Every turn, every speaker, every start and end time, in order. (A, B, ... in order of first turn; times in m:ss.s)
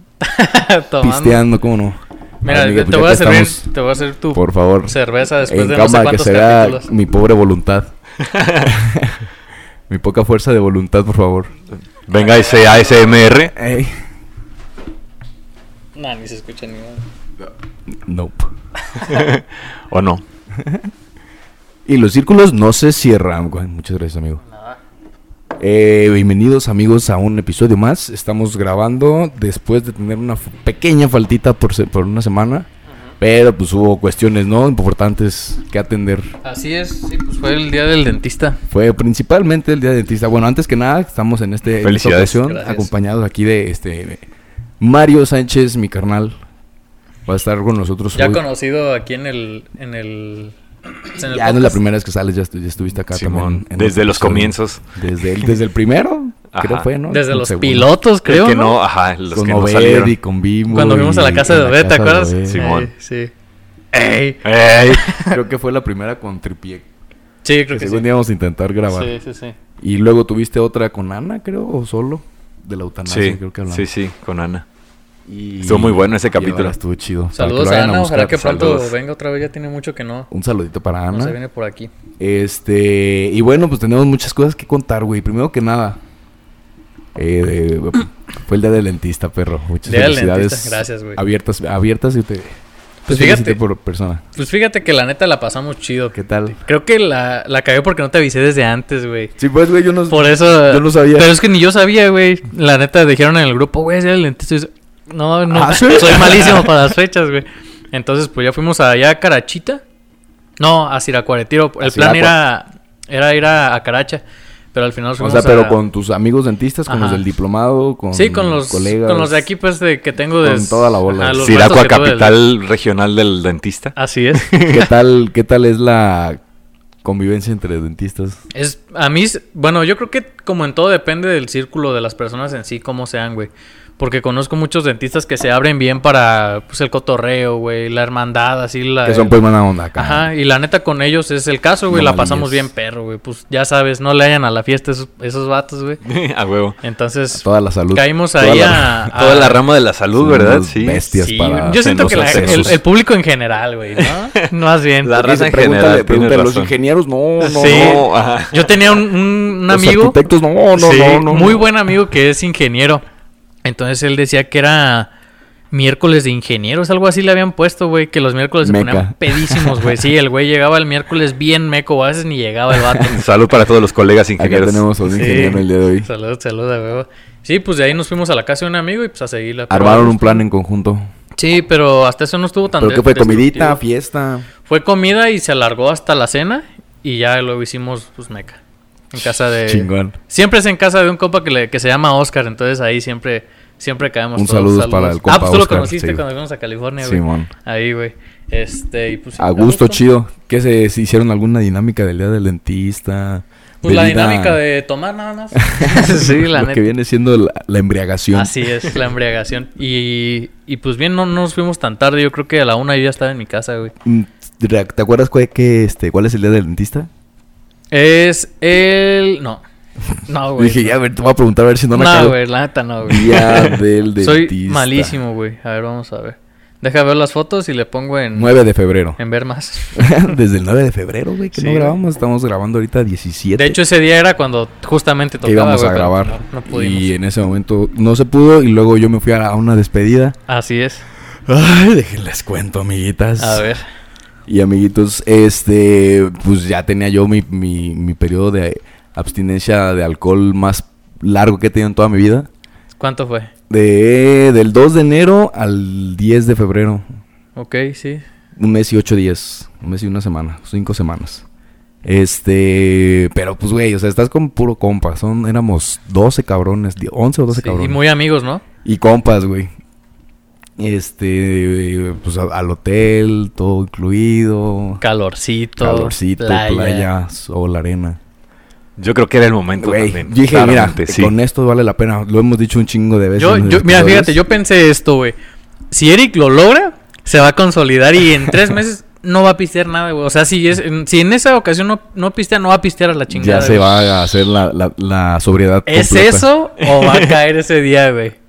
0:00.2-0:01.4 A
0:01.0-0:03.7 B
0:02.4-0:06.9 A
0:04.3-0:07.9 B
0:08.2-0:08.7 C
0:08.7-0:09.2 B
0:09.9-0:11.6 B
0:12.1-0:13.5 C
0:12.2-0:13.3 A
0:13.5-0:14.0 B
0:16.0-0:17.0 A
0:18.0-0:18.5 B
0:19.0-0:20.2 C
0:20.6-0:20.9 B
0:21.9-0:24.4 B
0:24.5-0:24.8 A
0:25.6-0:32.7 B
0:33.2-0:36.3 B
0:36.4-0:38.6 A
0:38.7-0:44.2 B
0:41.8-0:42.4 C
0:42.4-0:42.9 A
0:44.8-0:46.4 B
0:47.3-0:48.4 B
0:48.2-0:50.5 A
0:51.1-0:51.8 A
0:51.2-0:57.9 B
0:53.0-0:54.9 C
0:56.5-0:56.9 C
0:57.1-0:58.8 A
0:58.3-1:00.2 C
0:59.3-1:02.7 B
1:00.7-1:03.3 A
1:02.5-1:02.9 C
1:03.9-1:05.3 A
1:04.4-1:05.2 C
1:05.2-1:06.9 B
1:07.4-1:08.1 A
1:07.7-1:09.1 B
1:08.9-1:09.6 A
1:09.8-1:13.9 B
1:13.1-1:14.6 C
1:15.3-1:19.0 B
1:15.6-1:16.8 C
1:17.4-1:20.3 A
1:20.3-1:21.4 B
1:21.1-1:21.9 A
1:22.2-1:26.0 B
1:27.2-1:32.6 B
1:29.8-1:31.2 A
1:33.1-1:33.6 A
1:33.1-1:34.2 B
1:34.4-1:39.4 A
1:36.1-1:36.6 B
1:39.4-1:41.4 B
1:40.1-1:49.8 A
1:45.5-1:46.8 B
1:50.6-1:54.2 A
1:51.8-1:52.4 B
1:54.7-1:55.8 A
1:55.2-1:59.4 B
1:56.9-1:57.2 A
1:58.1-2:02.4 A
2:00.4-2:01.5 B
2:01.4-2:04.8 C
2:04.0-2:04.9 A
2:04.6-2:06.4 B
2:07.0-2:08.4 B
2:08.5-2:19.4 A
2:19.0-2:20.3 B
2:20.0-2:26.0 A
2:21.9-2:22.7 B
2:26.0-2:26.8 C
2:26.8-2:29.6 A
2:27.3-2:29.1 B
2:29.2-2:31.1 C
2:30.2-2:32.8 B
2:31.2-2:35.2 A
2:31.8-2:32.8 C
2:34.0-2:34.5 C
2:35.0-2:36.7 C
2:35.1-2:38.0 B
2:37.4-2:40.2 A
2:37.5-2:39.0 C
2:39.7-2:41.6 B
2:40.7-2:43.0 A
2:43.6-2:45.1 A
2:45.7-2:53.3 A
2:48.6-2:50.0 B
2:53.1-2:54.9 C
2:54.4-2:56.1 B
2:55.1-3:00.4 A
2:59.7-3:01.1 B
3:01.4-3:03.8 A
3:02.8-3:04.5 B
3:04.7-3:08.6 A
3:09.1-3:20.0 A
3:09.7-3:10.2 B
3:14.4-3:16.2 B
3:17.0-3:17.5 B
3:19.4-3:24.6 B
3:23.8-3:26.9 A
3:25.6-3:28.6 B
3:28.3-3:33.9 A
3:34.0-3:37.1 B
3:37.9-3:39.6 A
3:40.3-3:41.0 A
3:40.6-3:42.4 B
3:41.9-3:48.6 A
3:43.1-3:45.2 B
3:48.3-3:49.2 B
3:49.2-3:50.1 A
3:50.0-3:53.8 B
3:51.5-3:52.0 A
3:53.6-3:57.1 A
3:55.4-4:00.4 B
4:00.5-4:01.0 A
4:01.5-4:03.6 B
4:03.4-4:03.8 A
4:04.5-4:12.5 B
4:13.0-4:13.5 A
4:13.7-4:17.1 B
4:17.6-4:18.2 A
4:18.6-4:21.4 B
4:22.0-4:28.0 B
4:27.5-4:28.6 A
4:28.8-4:29.7 B
4:30.8-4:35.0 B
4:35.0-4:37.1 A
4:35.8-4:38.2 B
4:39.0-4:41.3 C
4:39.8-4:44.4 B
4:43.4-4:45.4 A
4:45.9-4:54.2 A
4:53.3-4:56.5 B
4:55.9-4:58.4 A
4:56.8-4:57.4 C